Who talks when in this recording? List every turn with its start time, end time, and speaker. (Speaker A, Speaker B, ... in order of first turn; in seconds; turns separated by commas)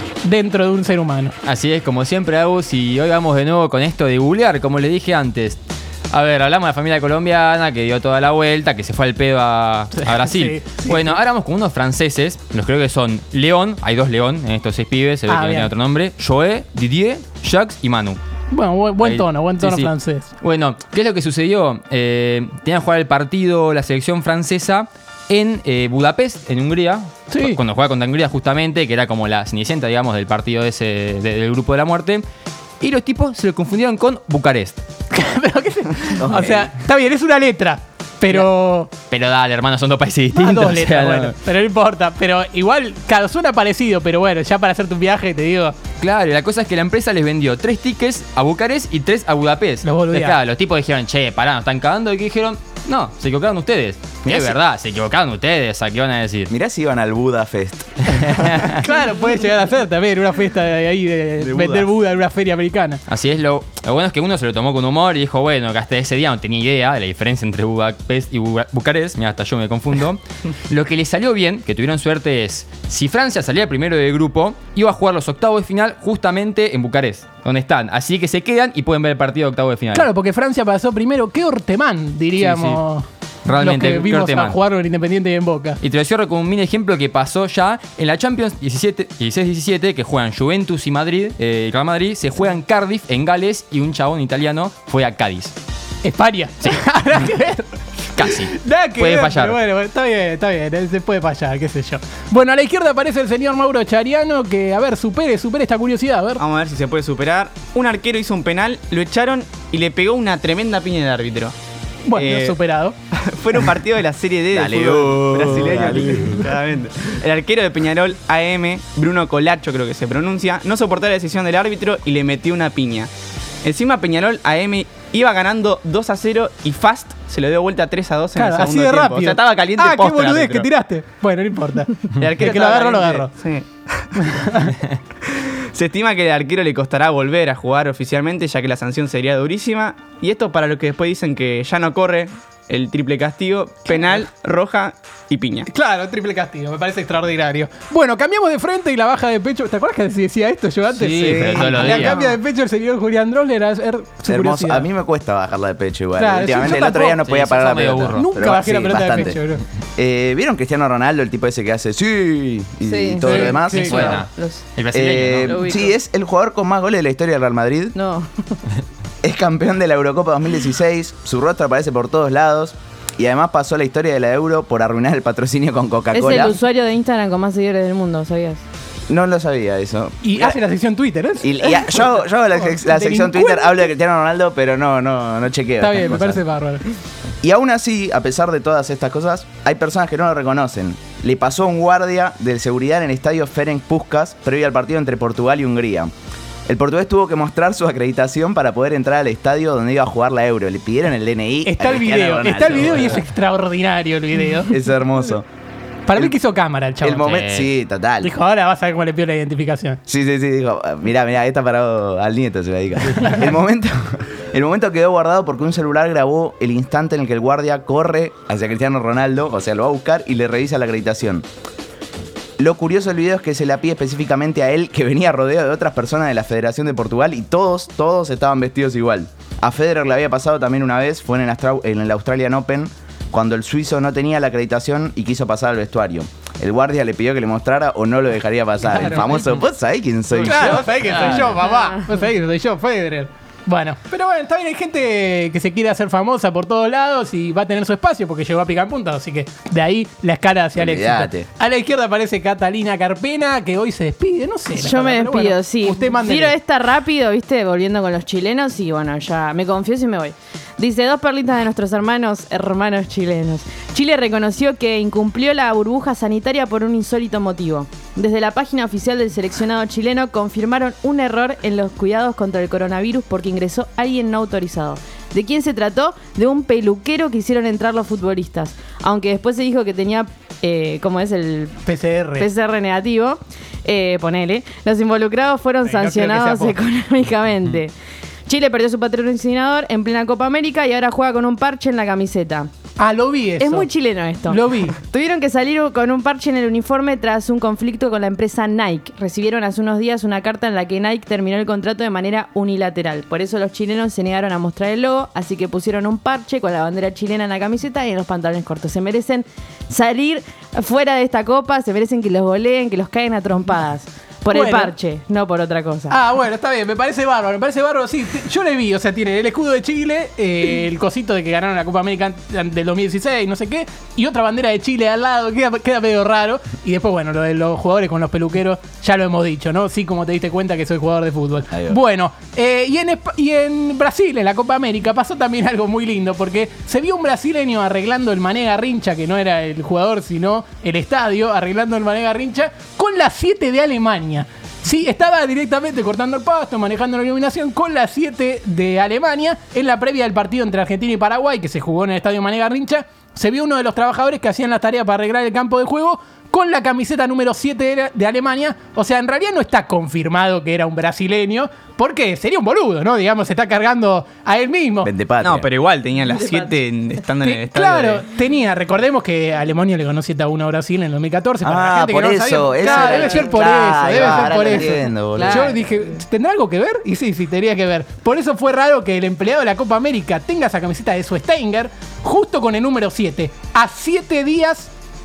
Speaker A: 0.2-1.3, Speaker B: 1.4-5.6, Speaker B: 6.1-18.2, Speaker A: 10.0-11.2, Speaker A: 15.3-15.7, Speaker A: 18.5-20.3, Speaker B: 19.0-32.2, Speaker A: 27.3-27.6, Speaker B: 32.8-34.8, Speaker A: 35.1-38.9, Speaker C: 36.2-36.7, Speaker B: 39.1-41.3, Speaker A: 40.4-45.7, Speaker B: 46.0-56.5, Speaker A: 49.8-50.4, Speaker C: 56.5-58.6, Speaker B: 58.4-58.8, Speaker A: 58.6-63.0, Speaker C: 61.4-61.9, Speaker B: 63.1-80.1, Speaker A: 79.9-85.8, Speaker B: 82.4-82.8, Speaker B: 83.5-84.6, Speaker B: 85.8-95.5, Speaker A: 96.0-106.4, Speaker B: 98.2-99.6, Speaker D: 106.4-111.5, Speaker A: 112.0-112.9, Speaker D: 112.1-112.6, Speaker D: 113.1-123.1, Speaker C: 114.5-116.5, Speaker D: 123.6-130.7, Speaker A: 128.3-133.3, Speaker D: 132.2-134.4, Speaker A: 134.2-134.8, Speaker D: 135.2-145.7, Speaker A: 145.7-154.9, Speaker B: 150.9-152.2, Speaker D: 151.5-152.2, Speaker C: 154.2-159.4, Speaker A: 156.2-157.2, Speaker B: 157.0-158.2, Speaker A: 158.2-159.6, Speaker C: 159.9-164.2, Speaker E: 162.8-164.6, Speaker A: 163.2-164.2, Speaker B: 163.8-165.6, Speaker C: 164.9-167.9, Speaker E: 165.4-165.9, Speaker E: 167.9-168.6, Speaker C: 169.2-176.6, Speaker E: 176.1-178.6, Speaker C: 179.1-180.6, Speaker A: 180.2-183.8, Speaker C: 181.4-186.4, Speaker A: 185.8-186.8, Speaker C: 187.4-196.1, Speaker C: 196.7-203.2, Speaker A: 201.6-204.7, Speaker C: 204.7-205.4, Speaker A: 206.1-207.3, Speaker C: 207.0-208.3, Speaker B: 207.2-207.7, Speaker A: 208.2-210.0, Speaker C: 210.1-221.4, Speaker C: 222.6-241.2, Speaker A: 238.9-239.4, Speaker A: 240.4-256.6, Speaker C: 250.8-251.4, Speaker E: 254.7-281.8, Speaker A: 281.8-282.5, Speaker E: 282.4-287.9, Speaker A: 285.8-286.8, Speaker E: 288.5-292.7, Speaker A: 293.0-293.9, Speaker E: 293.6-316.1, Speaker A: 294.4-295.0, Speaker A: 314.5-314.9, Speaker A: 316.1-365.1, Speaker C: 331.7-332.0, Speaker C: 365.0-365.7, Speaker D: 365.4-368.2, Speaker E: 366.3-366.7, Speaker A: 367.4-384.9, Speaker C: 371.6-375.8, Speaker E: 372.8-375.9